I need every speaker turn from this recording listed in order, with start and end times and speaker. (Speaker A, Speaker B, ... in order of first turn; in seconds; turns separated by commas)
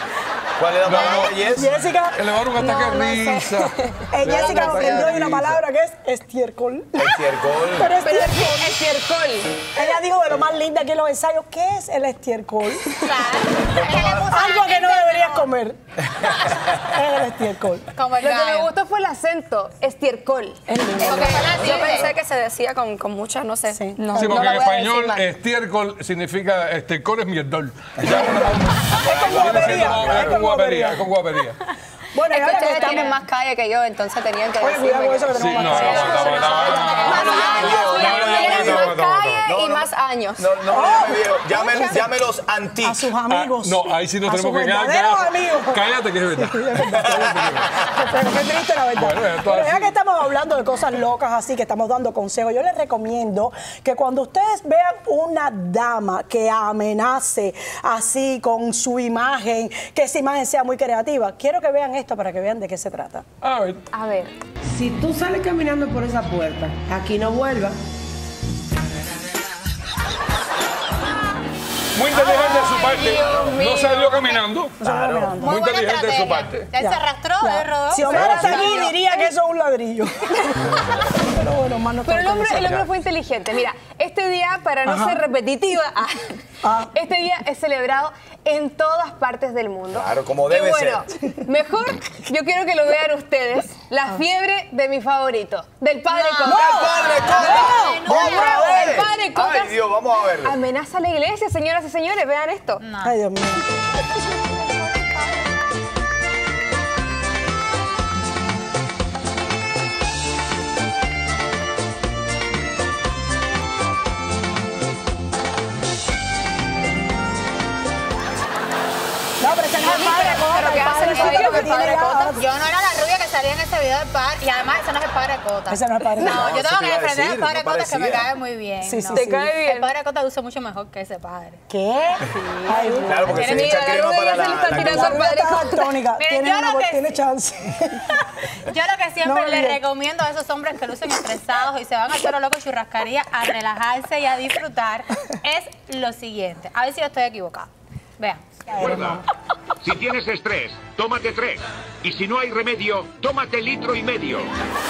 Speaker A: 0.6-1.8, Speaker B: 0.9-1.3, Speaker C: 1.3-2.2, Speaker B: 2.1-5.6, Speaker D: 2.7-3.4, Speaker C: 4.1-7.1, Speaker E: 4.2-5.2, Speaker A: 7.0-7.9, Speaker C: 7.7-8.8, Speaker F: 7.9-9.7, Speaker C: 9.7-13.1, Speaker E: 12.9-15.5, Speaker A: 13.7-14.3, Speaker C: 14.3-15.8, Speaker C: 16.7-17.8, Speaker E: 17.9-18.7, Speaker F: 18.2-20.6, Speaker C: 20.7-22.0, Speaker D: 21.0-25.3, Speaker E: 21.0-22.1, Speaker C: 23.7-24.2, Speaker F: 23.9-24.5, Speaker B: 24.1-31.6, Speaker A: 28.0-30.4, Speaker C: 28.0-31.1, Speaker C: 32.1-33.2, Speaker D: 32.3-40.9, Speaker C: 34.6-38.2, Speaker B: 35.3-39.5, Speaker E: 36.7-37.3, Speaker A: 37.1-43.0, Speaker C: 40.7-42.0, Speaker C: 42.8-63.2, Speaker B: 43.2-47.7, Speaker B: 48.9-49.9, Speaker B: 63.4-63.8, Speaker F: 63.9-64.3, Speaker G: 64.7-67.8, Speaker B: 71.9-74.8, Speaker F: 72.1-74.4, Speaker E: 72.5-73.2, Speaker A: 73.2-73.5, Speaker C: 74.8-75.5, Speaker A: 74.8-75.3, Speaker E: 75.4-79.3, Speaker B: 75.4-76.7, Speaker C: 76.8-82.9, Speaker B: 78.0-78.8, Speaker F: 78.3-78.9, Speaker F: 82.0-86.4, Speaker C: 84.8-85.2, Speaker C: 86.6-86.9, Speaker F: 86.9-99.8, Speaker A: 89.9-91.0, Speaker E: 96.1-99.0, Speaker C: 96.4-98.2, Speaker A: 96.5-100.5, Speaker F: 100.4-102.9, Speaker E: 102.8-103.2, Speaker C: 103.0-103.6, Speaker C: 119.4-122.4, Speaker D: 119.8-122.3, Speaker E: 119.8-131.6, Speaker F: 121.1-122.2, Speaker C: 125.7-126.6, Speaker A: 126.2-128.3, Speaker C: 128.8-129.5, Speaker F: 129.1-129.9, Speaker C: 131.7-133.8, Speaker E: 132.2-134.2, Speaker A: 133.0-135.2, Speaker F: 133.3-137.1, Speaker C: 134.5-138.1, Speaker E: 136.6-136.9, Speaker E: 138.7-147.7, Speaker C: 139.2-139.8, Speaker C: 148.7-149.2, Speaker H: 148.8-149.2, Speaker H: 149.8-154.5